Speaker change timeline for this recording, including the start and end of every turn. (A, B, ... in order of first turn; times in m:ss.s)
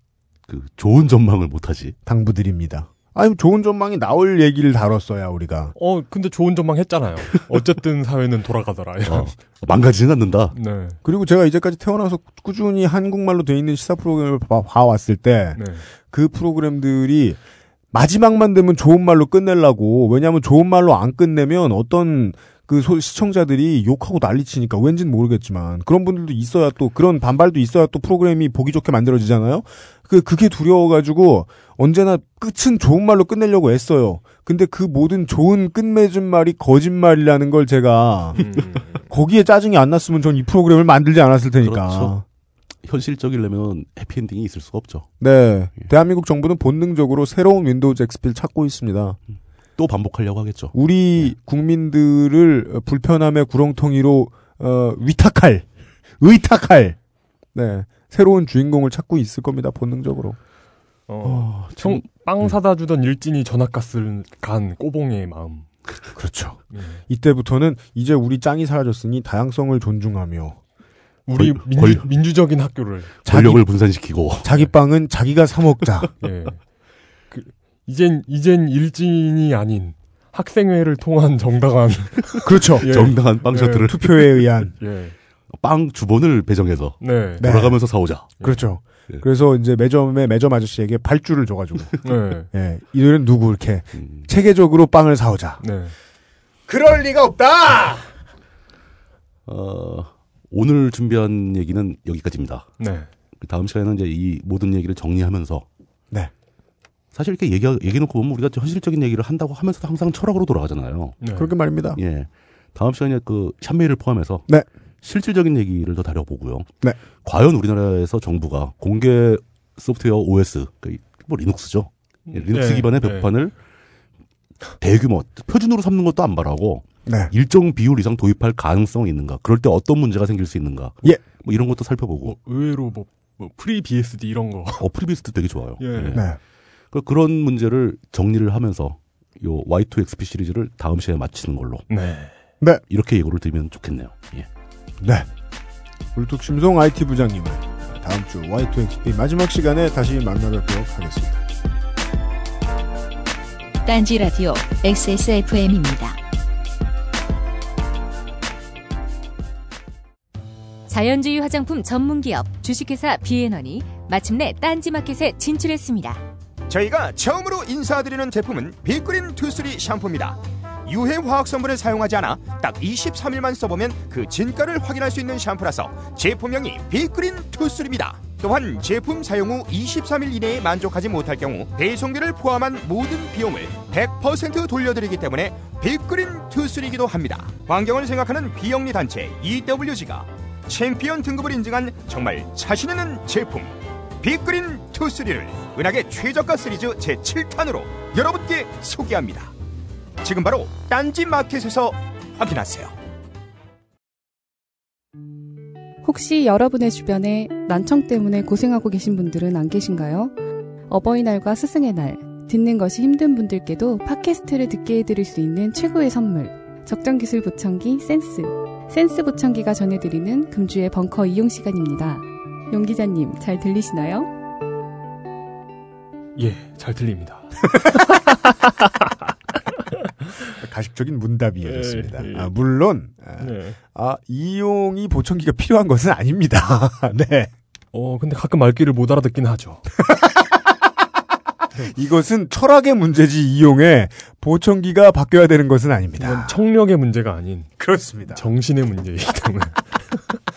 0:00.5-0:02.0 A
0:02.1-0:05.8 B
0:05.8-0:09.3 C
0:09.0-0:10.6 A
0:10.5-0:11.0 C
0:11.0-0:17.4 B
0:15.6-0:15.9 C
0:17.9-0:38.4 B
0:38.4-0:39.1 C
0:39.1-0:42.2 B
0:41.6-0:42.1 A
0:42.8-0:45.1 A
0:45.2-0:49.2 B
0:49.8-0:50.7 A
0:50.7-0:55.7 B
0:56.2-0:57.0 B
0:57.5-1:00.4 B
1:01.1-1:05.7 C
1:01.2-1:02.5 A
1:06.2-1:10.6 B
1:06.7-1:07.0 C
1:11.3-1:13.1 C
1:11.3-1:12.1 A
1:13.2-1:14.5 A
1:13.3-1:13.7 B
1:14.4-1:16.1 B
1:16.2-1:16.6 C
1:17.3-1:24.1 C
1:22.4-1:23.0 B
1:22.8-1:24.4 A
1:23.8-1:24.7 B
1:24.8-1:25.2 C
1:25.6-1:28.3 A
1:27.0-1:27.5 C
1:27.4-1:27.8 B
1:28.4-1:35.6 B
1:32.0-1:32.5 C
1:33.9-1:34.3 A
1:35.6-1:35.9 C
1:36.7-1:38.1 B
1:39.5-1:42.7 A
1:42.8-1:43.1 C
1:43.4-1:45.6 A
1:47.1-1:51.2 A
1:51.2-1:51.5 C
1:51.4-1:52.0 B
1:52.0-1:54.5 A
1:55.0-1:56.7 A
1:57.2-2:03.5 A
2:02.3-2:03.3 C
2:04.8-2:12.4 A
2:07.1-2:07.3 B
2:12.2-2:14.8 C
2:14.8-2:16.3 A
2:15.8-2:16.2 C
2:16.1-2:16.4 B
2:16.9-2:21.9 A
2:21.9-2:22.3 C
2:22.9-2:24.5 A
2:25.0-2:25.3 B
2:26.2-2:31.4 B
2:33.8-2:36.2 D
2:40.9-2:46.2 E
2:46.7-3:19.5 F
3:20.2-3:22.9 F
3:26.0-3:30.3 G
3:30.9-3:44.3 G
3:46.4-3:48.2 C
3:50.6-3:57.5 B
3:51.6-3:52.5 C
3:53.4-3:53.8 C
3:57.9-3:59.8 C
4:01.8-4:06.6 B
4:06.2-4:07.7 C
4:07.8-4:08.4 B
4:08.3-4:10.4 C